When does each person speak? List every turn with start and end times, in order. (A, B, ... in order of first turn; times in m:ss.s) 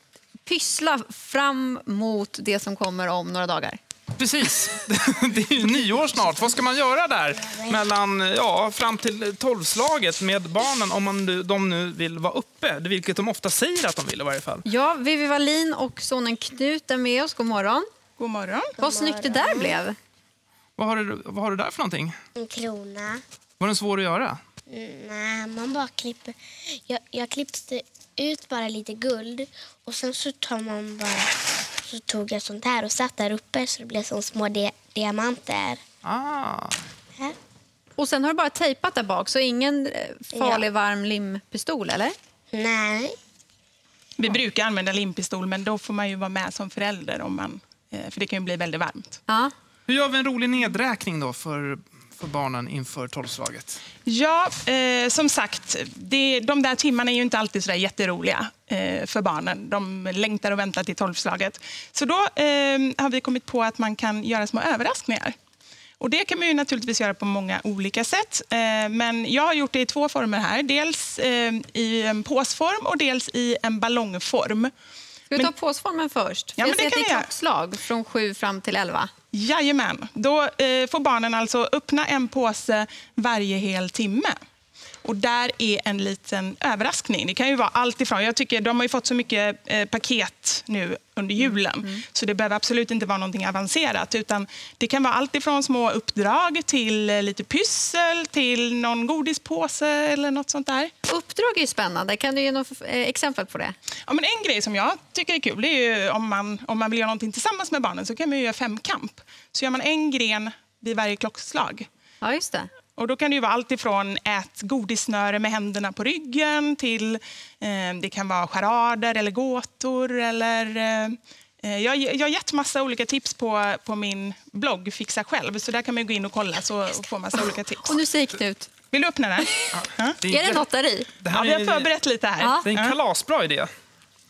0:00.4-0:03.8 A
0:04.2-0:14.6 B
0:07.5-0:07.8 C
0:14.7-0:17.9 A
0:18.2-0:18.8 D
0:18.8-0:19.8 C
0:18.8-0:20.0 A
0:20.8-0:22.2 B
0:22.4-0:23.2 C
0:23.6-0:24.4 B
0:24.7-0:35.8 C
0:36.0-0:36.8 B
0:38.0-0:42.1 A
0:40.3-0:40.6 C
0:42.5-0:43.2 C
0:44.2-0:49.2 D
0:49.3-0:49.5 A
0:49.9-0:53.8 B
0:54.0-1:05.3 D
1:06.0-1:14.7 D
1:15.3-1:19.1 A
1:16.6-1:17.3 D
1:19.3-1:24.4 D
1:25.0-1:40.9 D
1:41.1-1:43.8 A
1:44.1-1:51.9 D
1:52.2-1:52.7 A
1:53.0-2:08.0 D
2:07.8-2:08.7 A
2:08.9-2:10.2 D
2:09.7-2:10.6 B
2:10.3-2:11.1 A
2:11.2-2:11.9 B
2:11.3-2:13.0 D
2:12.6-2:13.7 B